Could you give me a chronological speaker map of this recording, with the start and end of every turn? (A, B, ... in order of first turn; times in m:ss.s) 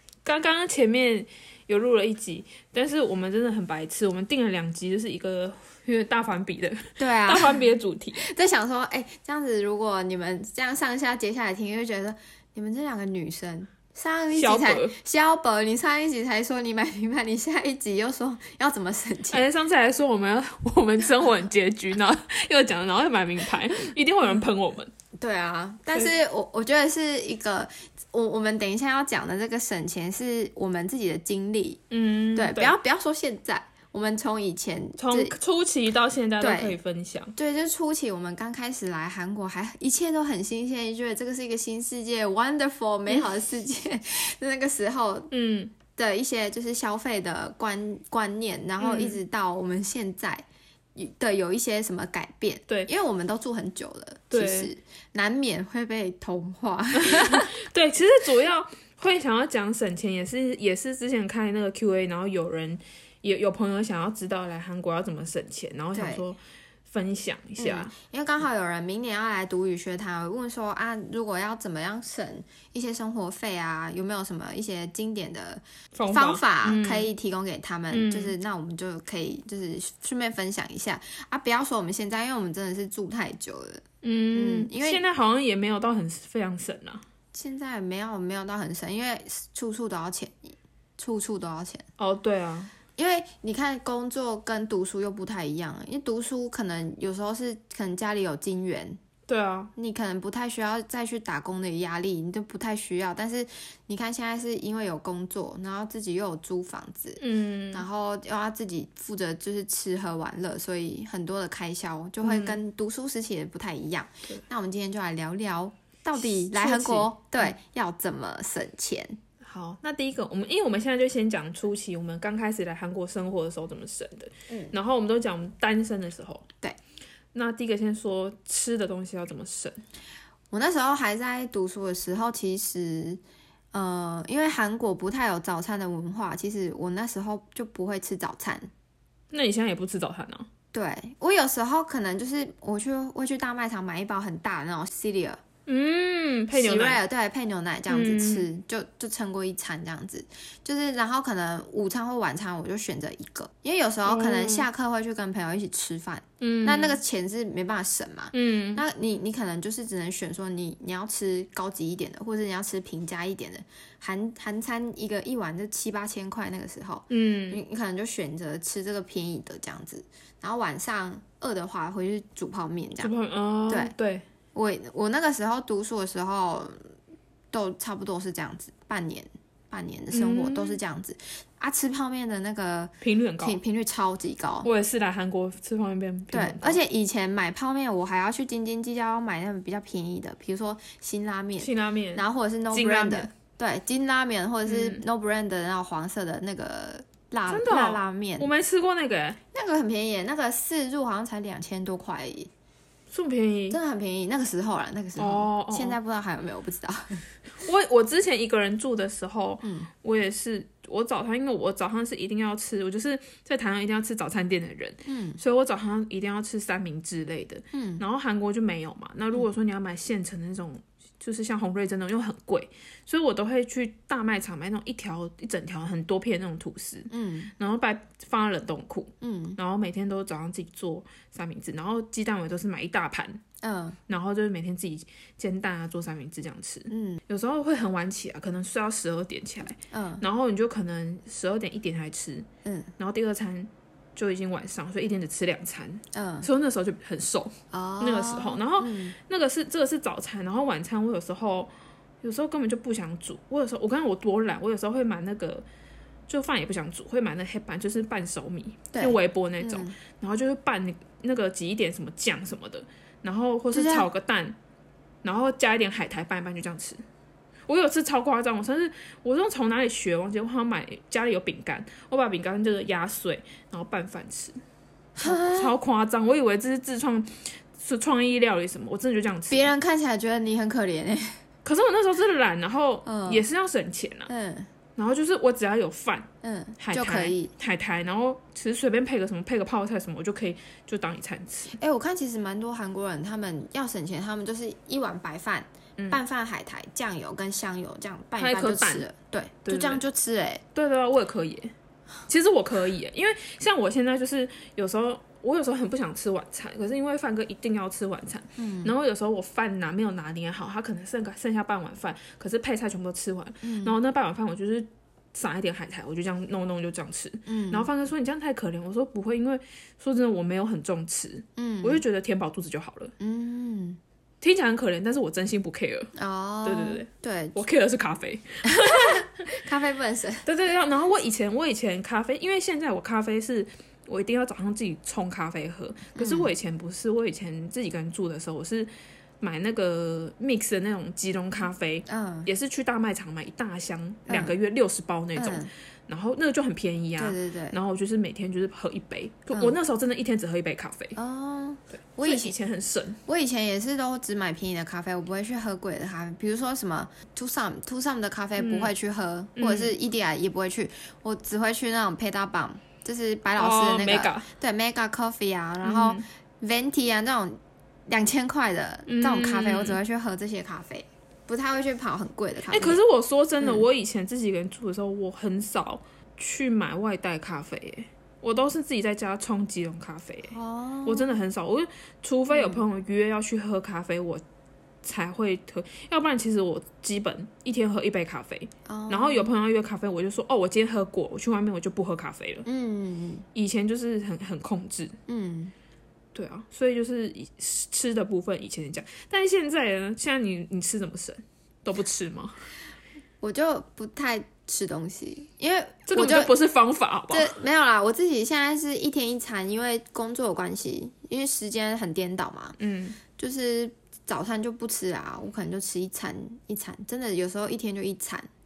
0:00.2-0:08.2 A
0:07.0-0:07.6 B
0:08.2-0:19.4 B
0:14.3-0:14.9 A
0:19.3-0:24.9 A
0:25.2-0:31.8 B
0:31.9-0:32.7 A
0:32.3-0:35.3 B
0:35.0-0:37.3 A
0:36.4-0:36.8 B
0:37.3-0:45.3 B
0:45.3-0:45.7 A
0:45.9-0:57.5 B
0:48.8-0:49.2 A
0:54.3-0:54.7 A
0:57.0-1:07.9 A
1:05.9-1:06.2 B
1:07.6-1:25.0 B
1:15.9-1:17.1 A
1:17.9-1:18.3 A
1:24.0-1:27.0 A
1:27.3-1:31.9 B
1:32.0-1:32.7 A
1:33.0-1:39.0 B
1:39.3-1:39.7 A
1:39.8-1:59.2 B
1:47.2-1:47.8 A
1:52.2-1:52.6 A
1:56.2-1:57.5 A
1:59.4-2:06.5 A
2:07.3-2:09.8 A
2:10.5-2:13.2 B
2:13.7-2:18.7 B
2:19.3-2:20.5 A
2:20.7-2:25.4 B
2:25.6-2:27.0 A
2:26.5-2:53.1 B
2:27.9-2:28.4 A
2:34.0-2:34.6 A
2:36.4-2:37.0 A
2:38.3-2:38.8 A
2:47.1-2:47.6 A
2:53.0-2:54.2 A
2:54.5-2:56.8 B
2:57.5-3:04.7 B
3:00.1-3:00.8 A
3:03.0-3:03.6 A
3:04.6-3:06.8 A
3:06.3-3:18.5 B
3:11.6-3:13.3 A
3:14.6-3:15.0 A
3:17.5-3:19.4 A
3:19.5-3:22.5 B
3:23.1-3:23.8 A
3:23.7-3:27.2 B
3:25.2-3:26.0 A
3:27.6-3:53.4 A
3:29.6-3:29.9 B
3:35.0-3:35.4 B
3:37.7-3:38.0 B
3:47.1-3:47.5 B
3:49.2-3:49.6 B
3:53.6-3:54.0 B
3:54.1-4:02.5 A
3:56.9-3:57.2 B
3:59.9-4:00.2 B
4:02.6-4:02.9 B
4:03.0-4:15.6 A
4:06.1-4:06.5 B
4:07.7-4:09.2 B
4:16.3-4:24.6 A
4:18.9-4:20.0 B
4:23.7-4:24.1 B
4:25.2-4:27.0 A
4:27.7-4:34.6 A
4:35.2-4:35.8 B
4:35.2-4:39.7 A
4:39.5-4:41.4 B
4:41.6-4:44.3 A
4:43.0-4:43.4 B
4:44.3-4:44.7 B
4:45.0-4:46.3 A
4:46.4-4:47.5 B
4:46.8-4:51.8 A
4:51.8-5:00.6 B
4:58.4-4:59.0 A
4:59.6-5:00.0 A
5:00.7-5:01.7 A
5:02.3-5:23.1 A
5:08.6-5:08.9 B
5:13.6-5:13.9 B
5:17.5-5:17.9 B
5:21.6-5:22.0 B
5:23.2-5:24.0 B
5:24.4-5:26.1 A
5:26.1-5:27.6 B
5:26.6-5:29.3 A
5:28.6-5:30.4 B
5:30.4-5:51.2 A
5:36.1-5:36.5 B
5:42.1-5:42.5 B
5:44.3-5:44.5 B
5:45.4-5:45.7 B
5:47.2-5:47.8 B
5:51.2-5:52.5 B
5:52.2-5:53.2 A
5:53.2-6:13.0 B
5:58.6-5:58.9 A
5:59.6-5:59.9 A
6:03.6-6:04.5 A
6:05.8-6:06.2 A
6:09.1-6:10.0 A
6:12.7-6:20.5 A
6:13.6-6:13.8 B
6:20.5-6:21.4 B
6:21.0-6:24.4 A
6:22.5-6:22.8 B
6:25.0-6:32.6 A
6:28.9-6:29.5 B
6:32.6-6:33.5 B
6:33.5-6:35.2 A
6:35.3-6:35.7 B
6:36.3-6:42.6 A
6:43.4-6:46.5 B
6:46.1-6:47.5 A
6:47.3-6:52.8 B
6:52.8-6:53.2 A
6:53.4-6:58.5 B